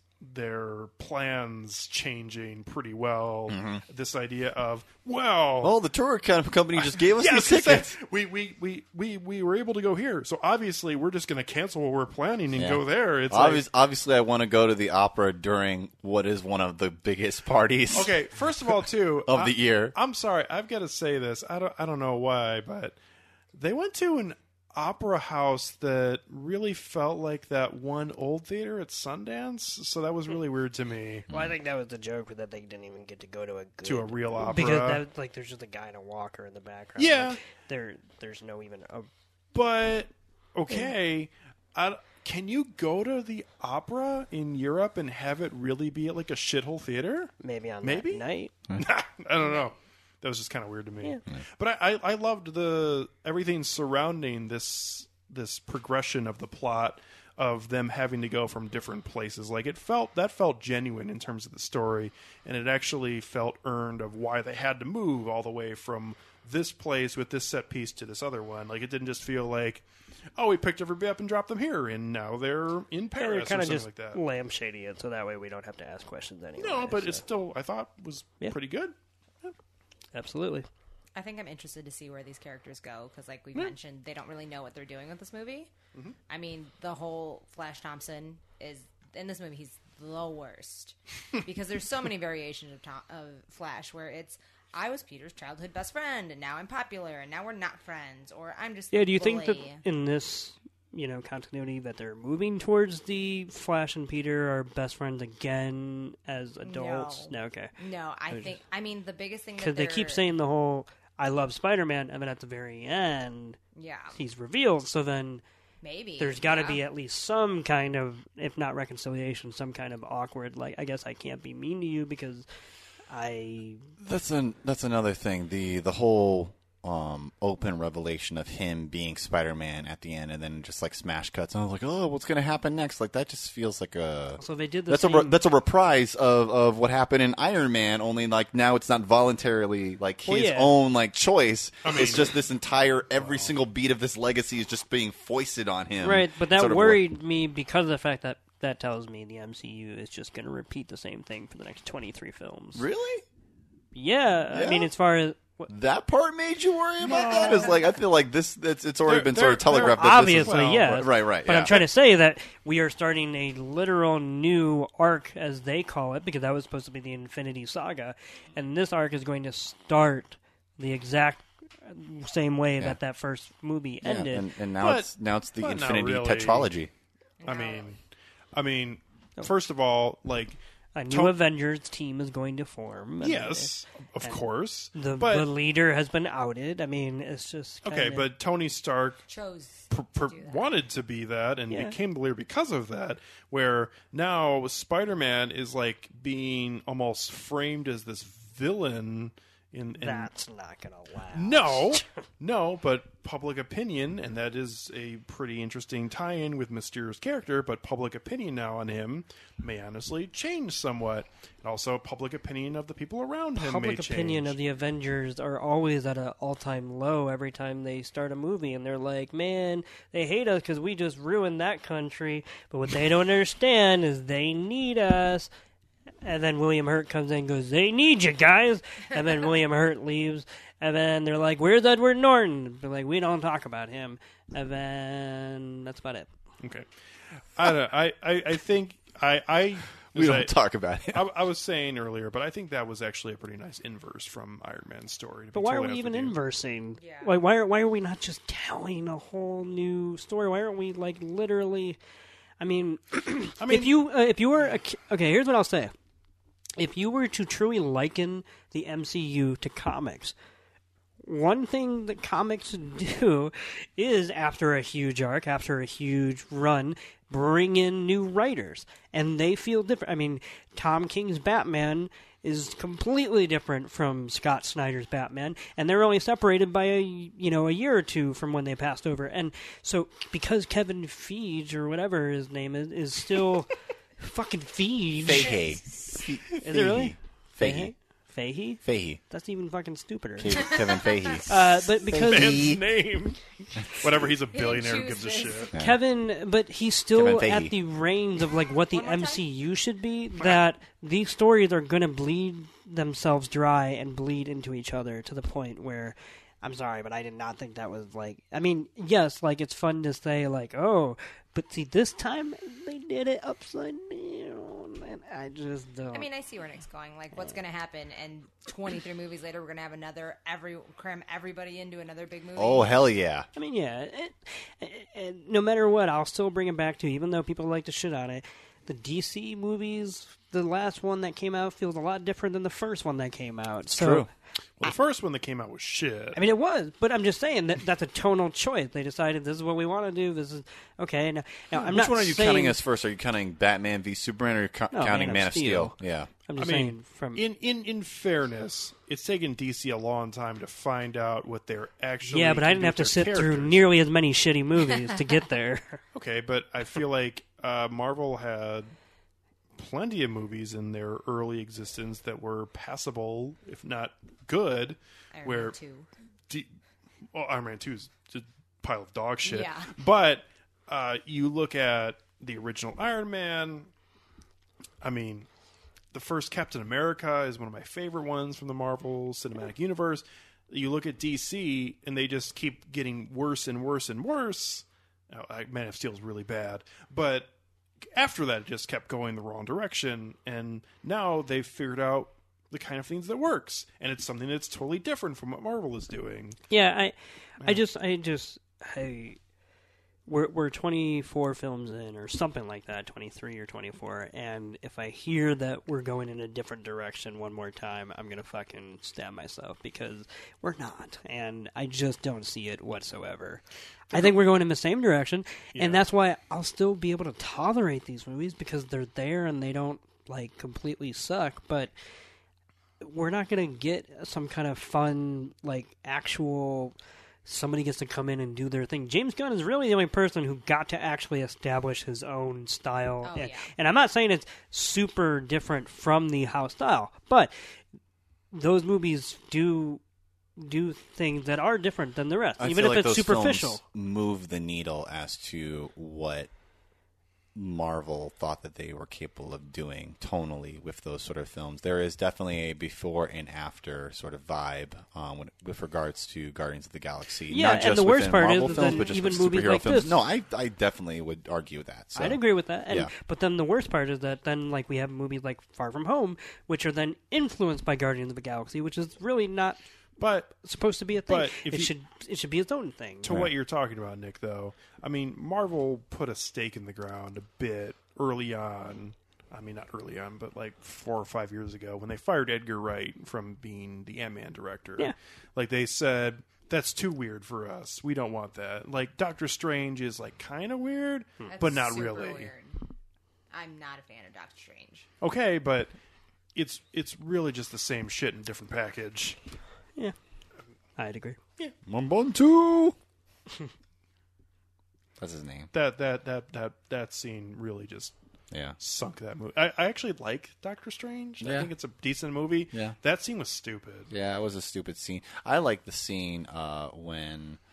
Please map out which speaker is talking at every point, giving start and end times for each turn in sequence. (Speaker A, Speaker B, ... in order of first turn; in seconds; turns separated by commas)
Speaker A: 0.2-5.8, Speaker B: 3.5-3.8, Speaker B: 5.6-8.0, Speaker A: 6.8-13.6, Speaker B: 12.5-19.9, Speaker A: 17.9-23.0, Speaker A: 23.5-31.3, Speaker C: 31.3-39.1, Speaker A: 33.8-35.0, Speaker A: 37.0-37.4, Speaker A: 39.5-69.8, Speaker C: 47.4-48.5, Speaker D: 49.4-49.7, Speaker A: 70.4-74.2, Speaker C: 73.2-77.2, Speaker A: 76.6-79.5, Speaker C: 80.1-80.7, Speaker D: 81.2-85.7, Speaker D: 86.3-99.8, Speaker C: 98.9-107.7, Speaker D: 106.6-110.2, Speaker C: 108.3-108.6, Speaker C: 109.6-113.6, Speaker D: 113.8-114.2, Speaker C: 114.2-115.4, Speaker D: 115.8-116.8, Speaker C: 116.2-122.5, Speaker C: 123.1-123.9, Speaker B: 124.0-147.0, Speaker C: 134.4-135.4, Speaker C: 140.2-140.7, Speaker A: 141.8-142.4, Speaker C: 146.0-152.9, Speaker B: 152.8-153.2, Speaker C: 153.9-155.7, Speaker B: 154.5-154.9, Speaker B: 155.7-161.8, Speaker A: 157.0-157.8, Speaker A: 159.1-161.1, Speaker C: 159.8-174.5, Speaker B: 174.0-176.9, Speaker A: 174.8-176.7, Speaker D: 177.4-177.9, Speaker A: 177.4-178.0, Speaker A: 178.5-180.6, Speaker C: 180.9-184.4, Speaker A: 181.1-181.4, Speaker A: 183.2-185.5, Speaker C: 184.9-188.3, Speaker A: 187.8-189.2, Speaker D: 189.3-190.8, Speaker A: 189.9-200.3, Speaker C: 191.7-192.0, Speaker C: 200.0-202.2, Speaker A: 201.3-214.6, Speaker C: 213.6-225.5, Speaker C: 226.2-236.3, Speaker A: 236.6-240.5, Speaker B: 240.1-241.3, Speaker A: 241.1-246.4, Speaker C: 245.5-252.0, Speaker D: 247.0-247.4, Speaker C: 252.6-255.9, Speaker A: 253.6-254.0, Speaker C: 256.8-260.4, Speaker C: 261.2-285.6, Speaker B: 285.2-287.9, Speaker D: 285.4-286.2, Speaker C: 286.6-290.7, Speaker B: 288.8-289.2, Speaker B: 290.4-292.8, Speaker D: 290.6-291.4, Speaker C: 291.5-292.7, Speaker A: 292.2-295.7, Speaker D: 294.5-295.7, Speaker B: 295.7-296.0, Speaker C: 295.8-316.3, Speaker B: 297.1-297.7, Speaker D: 298.9-299.5, Speaker D: 316.1-323.1, Speaker B: 322.6-323.5, Speaker C: 323.6-334.3, Speaker B: 333.9-334.3, Speaker A: 334.8-336.4, Speaker C: 336.4-342.8, Speaker B: 341.8-346.3, Speaker C: 344.9-345.9, Speaker C: 346.5-347.4, Speaker A: 346.6-353.8, Speaker C: 352.2-356.0, Speaker A: 356.1-358.9, Speaker A: 359.8-365.8, Speaker D: 365.3-366.1, Speaker A: 367.3-373.9, Speaker D: 369.4-369.9, Speaker A: 375.0-375.5, Speaker A: 376.1-387.5, Speaker A: 388.1-396.6, Speaker C: 396.7-399.4, Speaker C: 400.3-421.9, Speaker A: 415.7-416.0, Speaker C: 423.0-437.5, Speaker D: 433.2-433.7, Speaker C: 438.5-440.0, Speaker C: 440.6-443.8, Speaker B: 442.6-446.5, Speaker B: 447.6-463.1, Speaker C: 457.5-460.2, Speaker C: 462.1-469.8, Speaker A: 470.2-470.6, Speaker C: 470.6-473.4, Speaker A: 471.2-471.9, Speaker A: 473.2-492.5, Speaker D: 491.5-492.8, Speaker D: 493.5-495.1, Speaker A: 495.2-495.9, Speaker A: 496.6-499.4, Speaker C: 501.0-501.4, Speaker B: 501.9-503.0, Speaker B: 505.2-505.7, Speaker A: 505.7-508.1, Speaker B: 508.5-508.8, Speaker A: 508.8-514.1, Speaker B: 511.4-511.7, Speaker B: 514.1-517.6